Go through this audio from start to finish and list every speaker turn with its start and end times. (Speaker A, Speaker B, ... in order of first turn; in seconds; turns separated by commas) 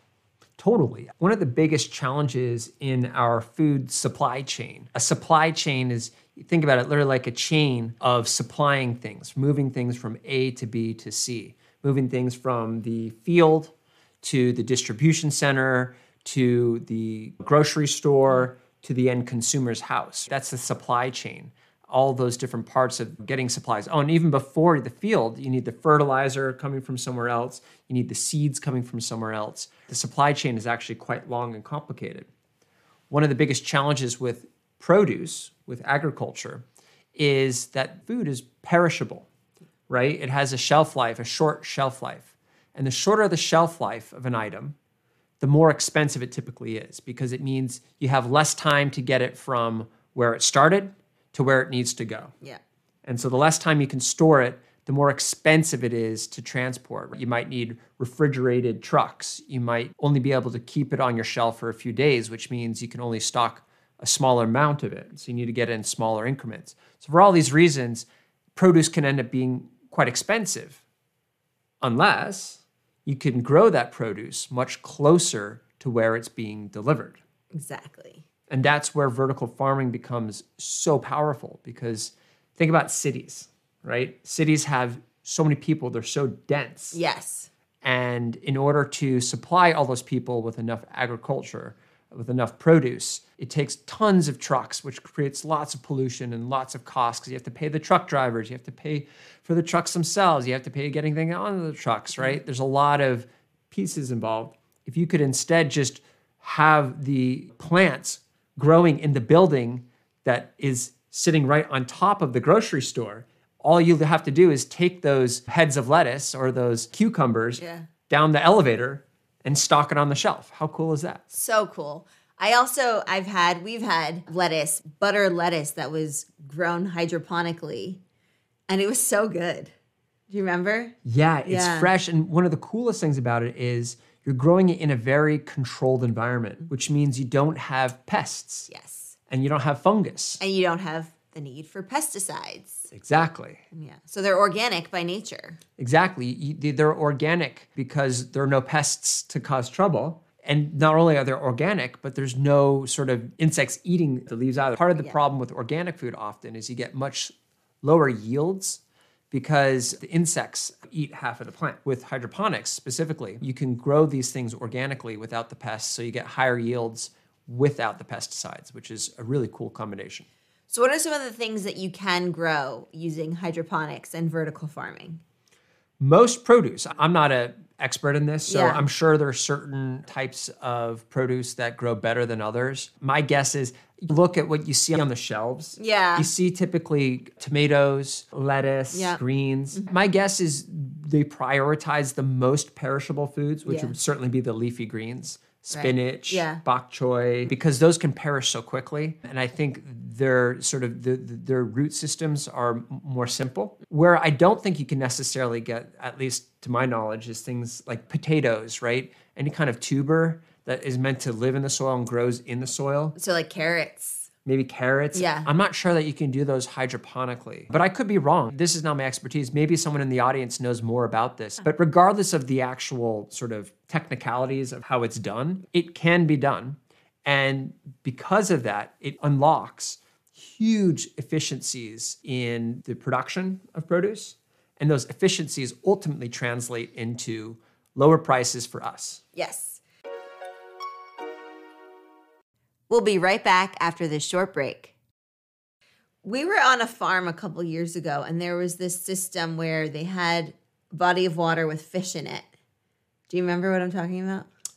Speaker A: 0.6-32.3, Speaker A: 33.1-36.6, Speaker A: 37.2-39.3, Speaker A: 39.9-44.8, Speaker A: 45.4-52.3, Speaker A: 53.0-70.8, Speaker A: 71.8-77.2, Speaker B: 77.5-78.2, Speaker A: 78.5-87.0, Speaker B: 86.9-87.5, Speaker A: 87.8-121.3, Speaker B: 117.6-117.9, Speaker B: 121.3-128.0, Speaker B: 128.7-129.7, Speaker B: 130.3-131.9, Speaker A: 131.1-138.7, Speaker B: 138.7-139.2, Speaker A: 139.3-140.4, Speaker B: 140.4-142.9, Speaker A: 142.9-143.6, Speaker B: 143.7-145.6, Speaker A: 145.8-157.3, Speaker A: 157.8-158.8, Speaker A: 159.3-170.2, Speaker B: 170.7-175.2, Speaker A: 176.0-213.2, Speaker B: 178.5-178.8, Speaker B: 185.8-186.3, Speaker B: 188.9-189.2, Speaker B: 193.7-193.9, Speaker B: 195.7-196.6, Speaker B: 213.2-214.3, Speaker A: 214.4-239.2, Speaker B: 215.1-215.5, Speaker B: 239.3-239.8, Speaker B: 242.9-244.9, Speaker B: 246.2-252.5, Speaker B: 253.3-254.5